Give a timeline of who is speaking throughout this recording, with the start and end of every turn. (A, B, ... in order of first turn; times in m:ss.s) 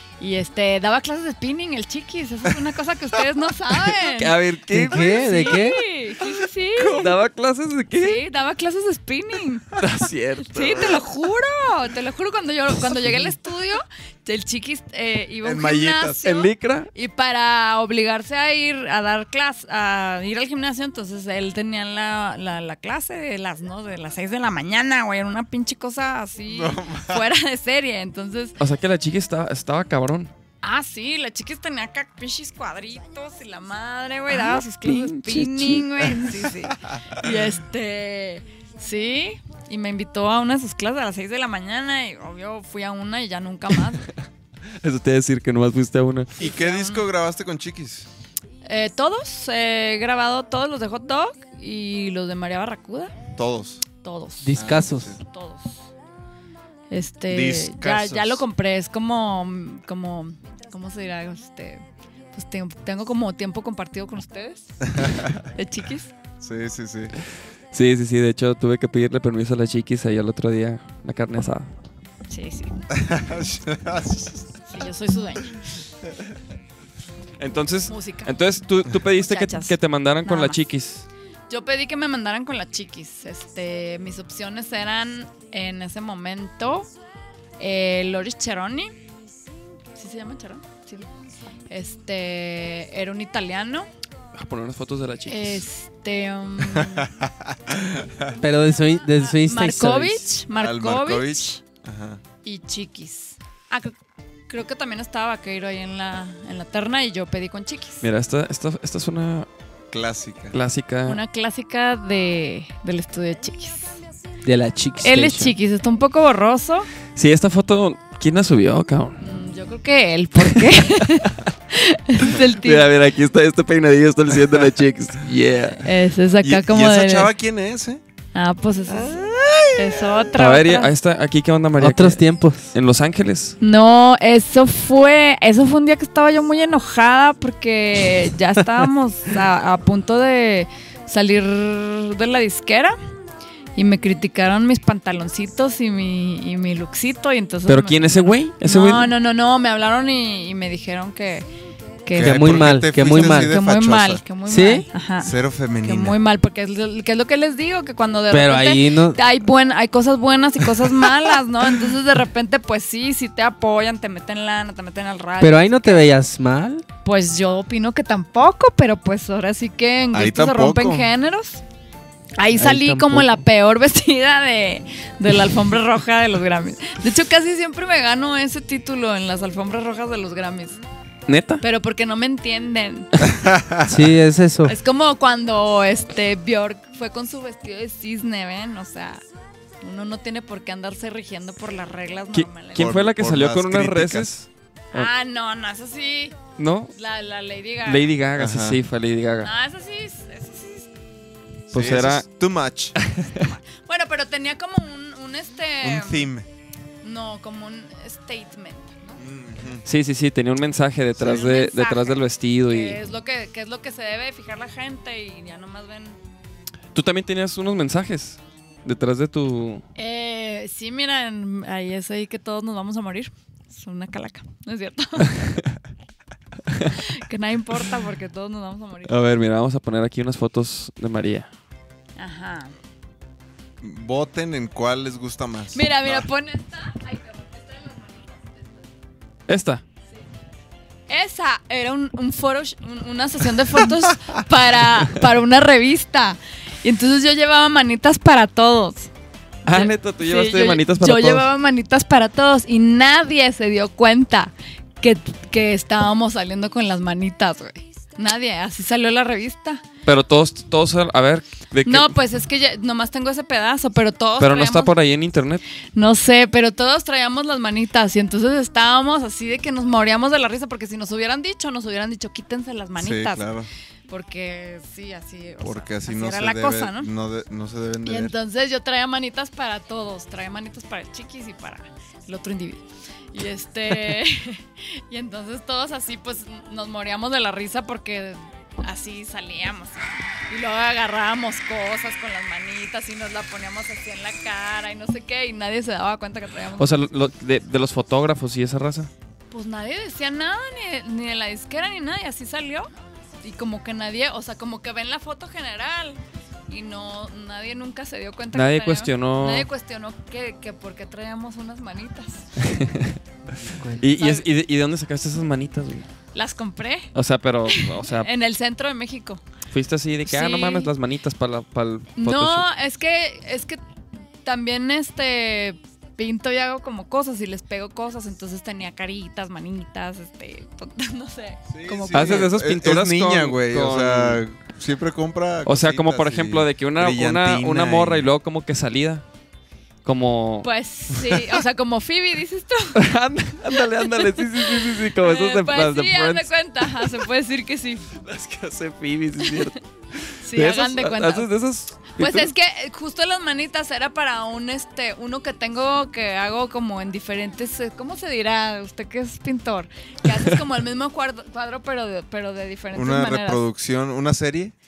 0:00.2-0:04.4 A
0:03.9-0:05.6 B
0:04.7-0:05.8 C
0:04.9-0:07.2 A
0:06.8-0:08.2 B
0:08.0-0:09.8 A
0:09.8-0:11.0 B
0:10.5-0:28.6 A
0:15.4-0:16.3 D
0:16.2-0:16.9 B
0:26.5-0:27.2 D
0:28.6-0:30.3 B
0:30.6-0:44.1 A
0:34.3-0:36.3 B
0:36.7-0:37.0 D
0:44.8-0:46.3 B
0:46.4-0:48.1 D
0:46.4-0:47.0 A
0:48.6-0:53.2 A
0:53.4-0:53.8 D
0:54.0-0:55.8 A
0:54.4-0:55.1 C
0:54.5-0:55.2 D
0:56.9-1:06.1 A
0:57.3-0:58.4 D
1:04.9-1:05.4 D
1:06.4-1:07.1 D
1:07.7-1:11.7 B
1:12.3-1:12.7 A
1:12.9-1:14.5 D
1:14.6-1:15.8 A
1:17.4-1:21.0 B
1:17.9-1:18.3 A
1:19.2-1:20.6 A
1:21.5-1:26.9 A
1:27.6-1:29.0 A
1:29.9-1:31.1 A
1:31.7-1:33.9 A
1:34.3-1:35.6 B
1:35.3-1:37.1 A
1:36.7-1:38.4 D
1:38.4-1:40.2 C
1:39.0-1:41.6 A
1:40.5-1:42.2 D
1:42.4-1:44.0 A
1:44.5-1:48.0 A
1:48.0-1:49.5 B
1:49.9-1:50.6 D
1:50.5-1:51.2 B
1:51.0-1:54.0 A
1:54.4-1:55.5 C
1:55.0-1:56.9 A
1:57.1-1:59.2 B
1:59.2-2:02.9 A
2:00.6-2:01.2 B
2:02.4-2:05.9 B
2:05.8-2:07.3 A
2:06.4-2:08.0 D
2:08.3-2:10.9 A
2:08.9-2:10.3 D
2:10.3-2:13.6 B
2:11.8-2:12.7 C
2:13.6-2:23.0 A
2:23.7-2:31.5 A
2:27.7-2:29.1 B
2:32.0-2:46.1 A
2:32.1-2:34.2 D
2:32.2-2:33.6 C
2:34.5-2:34.9 C
2:35.2-2:36.2 D
2:38.3-2:39.2 C
2:45.4-2:46.8 C
2:47.0-2:51.6 A
2:50.1-2:51.1 D
2:52.4-3:00.8 A
2:52.6-2:53.3 C
3:01.3-3:01.6 B
3:01.6-3:03.1 A
3:03.2-3:04.0 D
3:03.9-3:04.7 C
3:04.6-3:09.2 A
3:09.8-3:12.9 A
3:12.3-3:15.1 B
3:12.7-3:14.3 D
3:14.9-3:16.4 A
3:16.6-3:16.9 B
3:16.9-3:18.1 A
3:17.8-3:19.5 B
3:18.4-3:18.8 D
3:19.4-3:20.9 A
3:21.7-3:23.0 D
3:21.7-3:22.2 B
3:23.0-3:23.4 B
3:23.3-3:26.3 A
3:25.8-3:26.5 D
3:27.0-3:29.2 A
3:29.2-3:29.8 D
3:29.8-3:33.0 B
3:31.2-3:36.2 A
3:36.9-3:39.8 B
3:40.0-3:45.5 A
3:46.9-3:49.2 A
3:49.1-3:51.5 B
3:52.2-3:52.7 A
3:53.8-3:56.2 D
3:55.7-3:58.8 A
3:59.5-3:59.8 B
4:01.1-4:09.1 A
4:09.6-4:11.4 B
4:09.7-4:19.8 A
4:20.0-4:22.1 B
4:21.8-4:24.9 A
4:24.4-4:25.6 B
4:25.9-4:33.5 A
4:33.0-4:33.7 D
4:34.1-4:37.1 A
4:35.6-4:38.3 D
4:38.0-4:57.1 A
4:56.8-4:59.1 B
4:59.5-5:02.9 A
5:03.4-5:12.5 A
5:08.5-5:09.7 B
5:12.6-5:13.1 B
5:13.6-5:14.0 C
5:14.0-5:16.1 B
5:14.1-5:14.5 A
5:16.3-5:17.1 A
5:17.1-5:18.3 B
5:17.7-5:19.4 A
5:19.7-5:22.6 B
5:20.2-5:20.9 A
5:22.2-5:23.8 A
5:24.4-5:32.5 A
5:31.7-5:38.3 D
5:32.1-5:34.4 B
5:35.6-5:39.2 B
5:40.0-5:40.7 B
5:40.6-5:43.0 A
5:42.9-5:47.2 B
5:43.7-5:48.2 A
5:48.2-5:52.5 B
5:49.4-5:49.7 A
5:50.4-5:51.5 A
5:52.2-6:03.6 A
6:02.9-6:04.7 D